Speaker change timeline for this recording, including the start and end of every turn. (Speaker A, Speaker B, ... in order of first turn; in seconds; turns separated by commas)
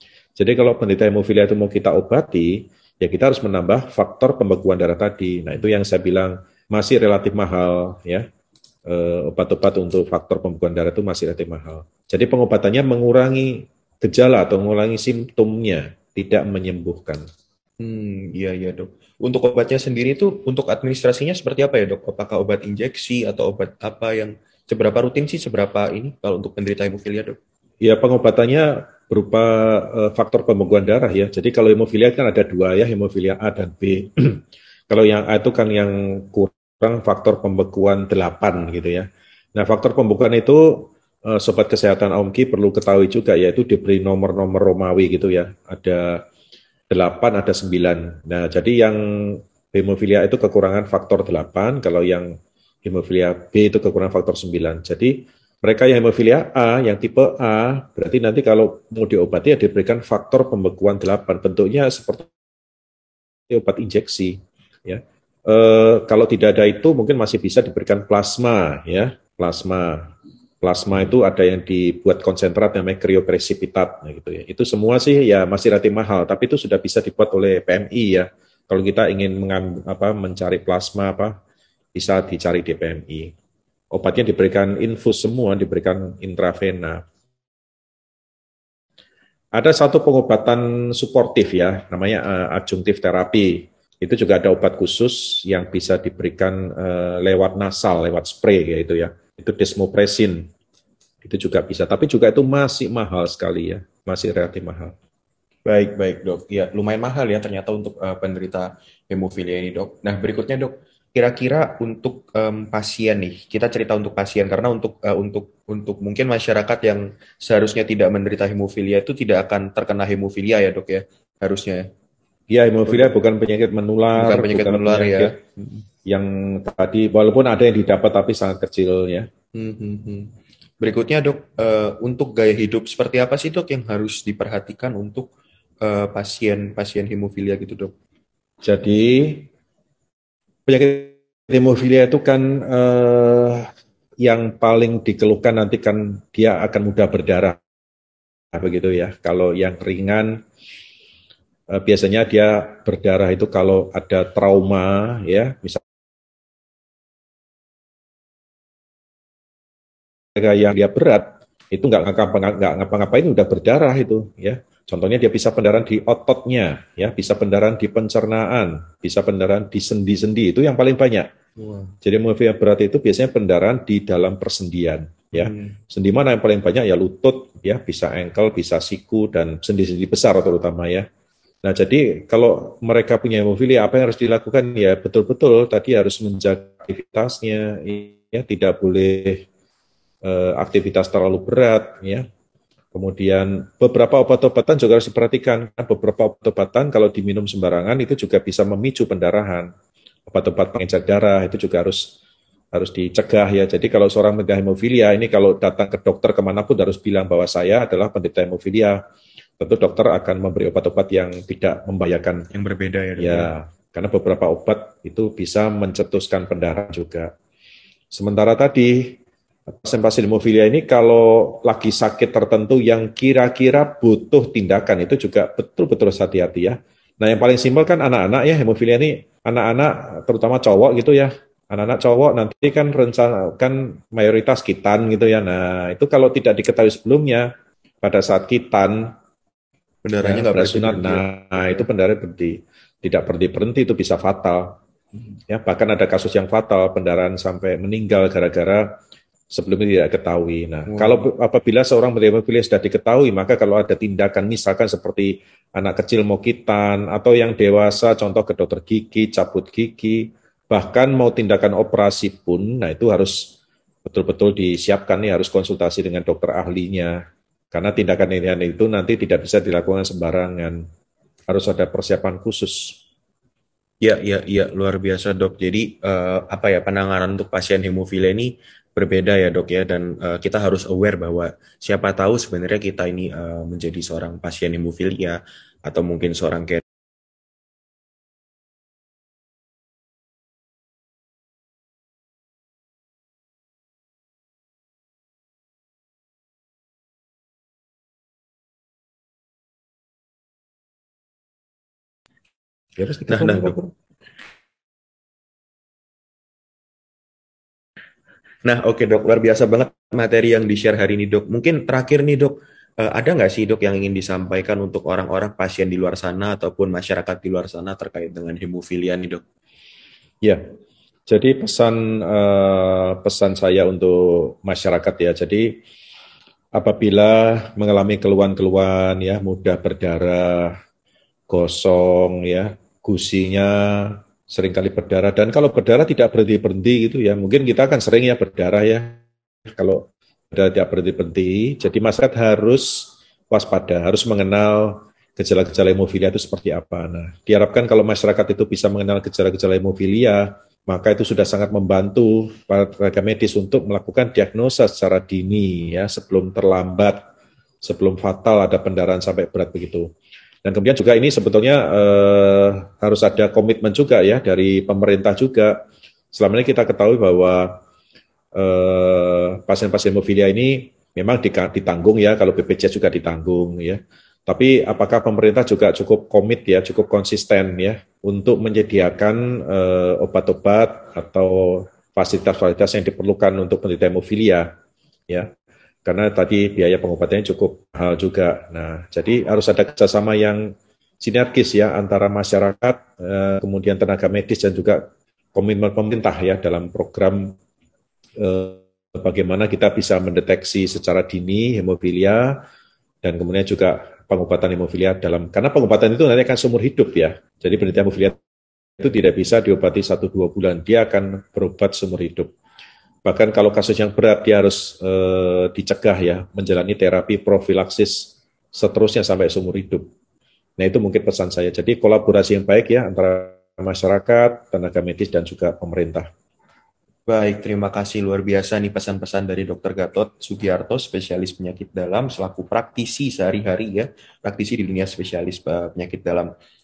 Speaker A: 0.3-8.2, Speaker A: 8.8-17.2, Speaker B: 17.8-27.4, Speaker A: 27.8-46.2, Speaker A: 46.9-62.3, Speaker A: 63.5-81.4, Speaker A: 81.9-83.3, Speaker A: 83.9-87.0, Speaker A: 89.5-100.5, Speaker A: 101.2-105.0, Speaker B: 105.7-121.9, Speaker A: 122.5-125.3, Speaker B: 122.9-123.1, Speaker B: 124.2-125.8, Speaker A: 126.0-129.3, Speaker B: 129.5-135.3, Speaker B: 135.8-137.9, Speaker A: 138.6-139.5, Speaker A: 140.7-143.7, Speaker A: 144.2-147.6, Speaker A: 148.5-150.4, Speaker A: 151.7-155.8, Speaker A: 160.3-171.3, Speaker B: 171.6-171.9, Speaker A: 172.0-181.1, Speaker B: 175.3-175.8, Speaker A: 181.6-189.4, Speaker A: 190.2-192.2, Speaker A: 192.9-199.7, Speaker A: 200.3-202.2, Speaker A: 202.7-209.0, Speaker A: 209.6-212.5, Speaker B: 212.5-213.5, Speaker A: 213.2-217.3, Speaker A: 218.1-237.5, Speaker A: 238.0-239.1, Speaker B: 240.0-241.2, Speaker A: 240.2-244.8, Speaker A: 245.5-248.9, Speaker A: 249.5-267.2, Speaker B: 250.9-251.2, Speaker A: 267.7-270.9, Speaker A: 271.5-273.0, Speaker B: 274.0-286.8, Speaker A: 303.0-303.9, Speaker B: 303.3-303.7, Speaker B: 308.6-319.4, Speaker A: 321.3-325.8, Speaker A: 326.7-330.8, Speaker A: 331.5-357.2, Speaker A: 357.8-360.1, Speaker A: 360.6-365.8, Speaker A: 366.3-367.8, Speaker A: 368.5-384.7, Speaker A: 386.0-397.6, Speaker A: 398.4-402.6, Speaker A: 403.2-408.4, Speaker A: 409.0-412.5, Speaker A: 413.2-420.1, Speaker A: 420.8-426.3, Speaker B: 427.3-436.5